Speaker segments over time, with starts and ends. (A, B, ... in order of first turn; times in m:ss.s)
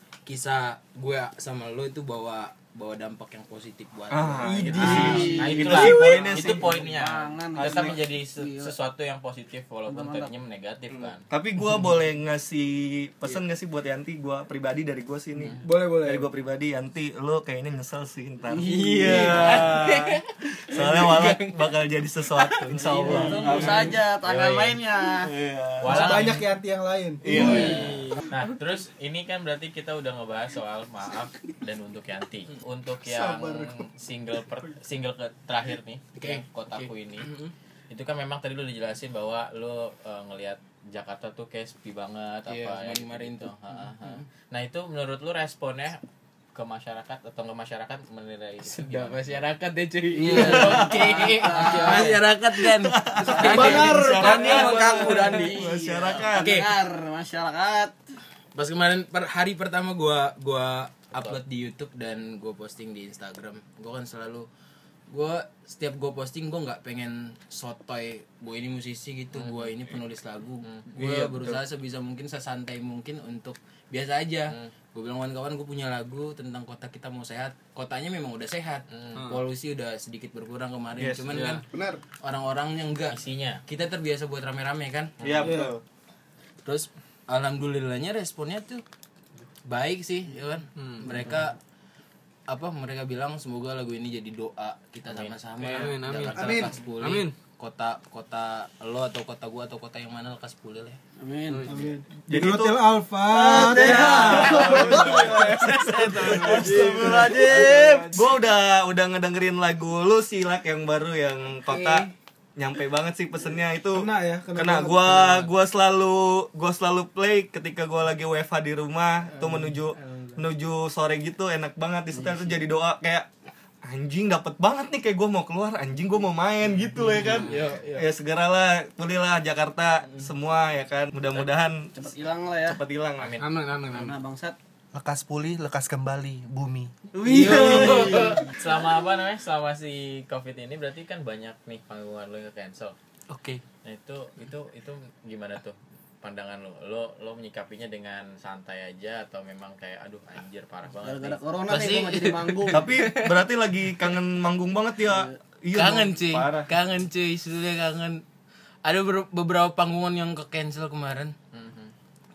0:00.2-0:05.4 A
0:04.1-0:06.6 B
0:04.4-0:05.4 C
0:04.6-0:11.2 D
0:04.8-0:08.7 E
0:09.9-0:10.3 E
0:11.0-0:24.0 B
0:15.6-0:16.2 C
0:18.5-0:19.6 E
0:19.0-0:19.4 F
0:19.4-0:21.6 A
0:22.4-0:23.7 A
0:23.0-0:25.3 E
0:23.5-0:24.8 D
0:25.2-0:26.3 B
0:25.8-0:26.5 D
0:25.8-0:27.6 C
0:27.2-0:27.9 B
0:27.3-0:27.9 A
0:27.3-0:37.3 D
0:27.6-0:28.1 F
0:33.0-0:33.9 C
0:36.2-0:37.5 A
0:37.9-0:46.0 D
0:42.5-0:44.2 A
0:46.5-0:49.4 D
0:48.6-0:54.2 A
0:50.2-0:50.9 F
0:50.2-0:52.2 E
0:50.5-0:50.8 B
0:51.6-0:52.0 F
0:52.5-0:56.6 B
0:53.2-0:57.9 E
0:53.3-0:54.4 C
0:53.4-0:55.6 F
0:56.4-0:56.6 A
0:58.5-1:04.5 A
1:05.1-1:21.6 A
1:09.3-1:09.8 D
1:10.9-1:11.6 B
1:18.9-1:19.2 D
1:19.1-1:19.4 F
1:21.0-1:21.4 B
1:21.3-1:21.6 F
1:21.7-1:22.0 G
1:22.2-1:25.1 A
1:23.1-1:23.6 D
1:25.2-1:25.6 D
1:25.2-1:25.8 B
1:25.4-1:25.7 C
1:26.6-1:28.8 A
1:29.6-1:31.6 A
1:30.8-1:31.2 F
1:32.5-1:41.0 A
1:35.1-1:35.3 D
1:35.6-1:37.3 F
1:36.3-1:36.7 G
1:41.2-1:41.8 E
1:41.5-1:41.8 F
1:41.7-1:45.0 C
1:42.3-1:42.9 B
1:43.2-1:48.2 E
1:43.5-2:03.3 B
1:43.8-1:48.2 F
1:47.0-1:47.3 C
1:51.7-1:52.1 A
1:53.9-1:55.5 C
1:59.4-2:00.4 A
2:03.8-2:11.9 B
2:07.2-2:08.1 A
2:11.9-2:12.8 E
2:12.6-2:13.3 B
2:13.2-2:13.6 D
2:13.4-2:14.1 F
2:13.9-2:14.6 E
2:14.9-2:16.9 G
2:17.1-2:18.5 E
2:17.3-2:18.4 A
2:17.6-2:23.0 D
2:23.3-2:23.6 A
2:23.8-2:32.1 D
2:31.0-2:32.9 E
2:31.7-2:33.3 A
2:32.7-2:36.7 B
2:35.0-2:35.3 E
2:35.7-2:38.2 A
2:38.8-2:41.3 A
2:41.5-2:41.9 D